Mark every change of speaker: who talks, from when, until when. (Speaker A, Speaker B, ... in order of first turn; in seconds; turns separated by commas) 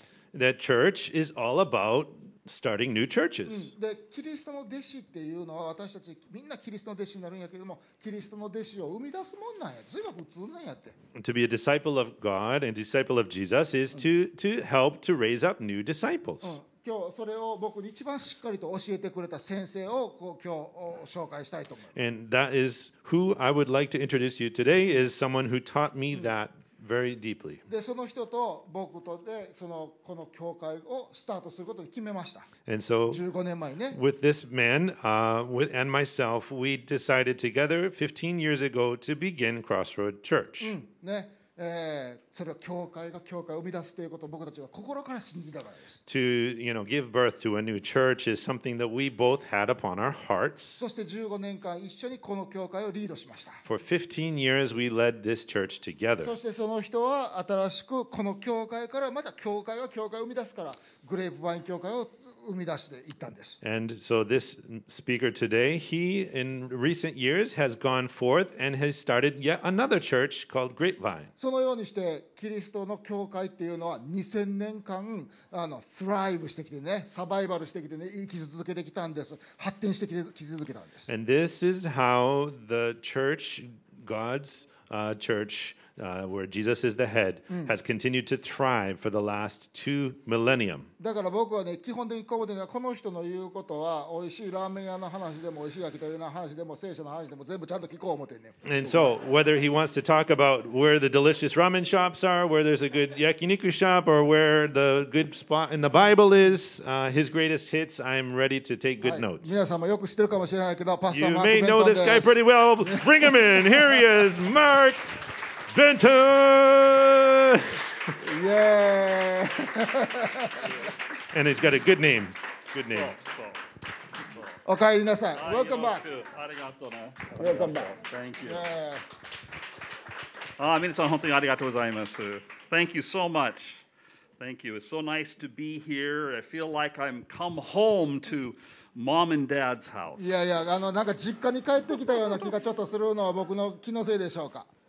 Speaker A: 0.3-3.7, Speaker B: 3.5-10.9, Speaker A: 11.2-16.6, Speaker B: 16.4-22.0, Speaker A: 21.9-27.6, Speaker B: 27.7-32.5, Speaker A: 32.6-33.2, Speaker B: 33.1-34.0, Speaker A: 33.9-40.7, Speaker B: 40.6-46.0, Speaker A: 46.0-50.8, Speaker B: 50.8-53.6, Speaker A: 53.6-56.3, Speaker B: 56.2-63.6, Speaker A: 63.6-71.3, Speaker B: 71.4-81.1, Speaker A: 81.1-90.9, Speaker B: 91.0-99.1, Speaker A: 98.6-109.6, Speaker B: 109.0-114.0, Speaker A: 111.1-117.9, Speaker B: 118.2-120.9, Speaker C: 120.6-120.9, Speaker A: 121.3-123.2, Speaker C: 122.9-123.6, Speaker B: 124.6-126.0, Speaker C: 125.3-128.7, Speaker B: 127.4-129.0, Speaker C: 130.6-133.8, Speaker C: 134.4-140.3, Speaker B: 140.2-144.7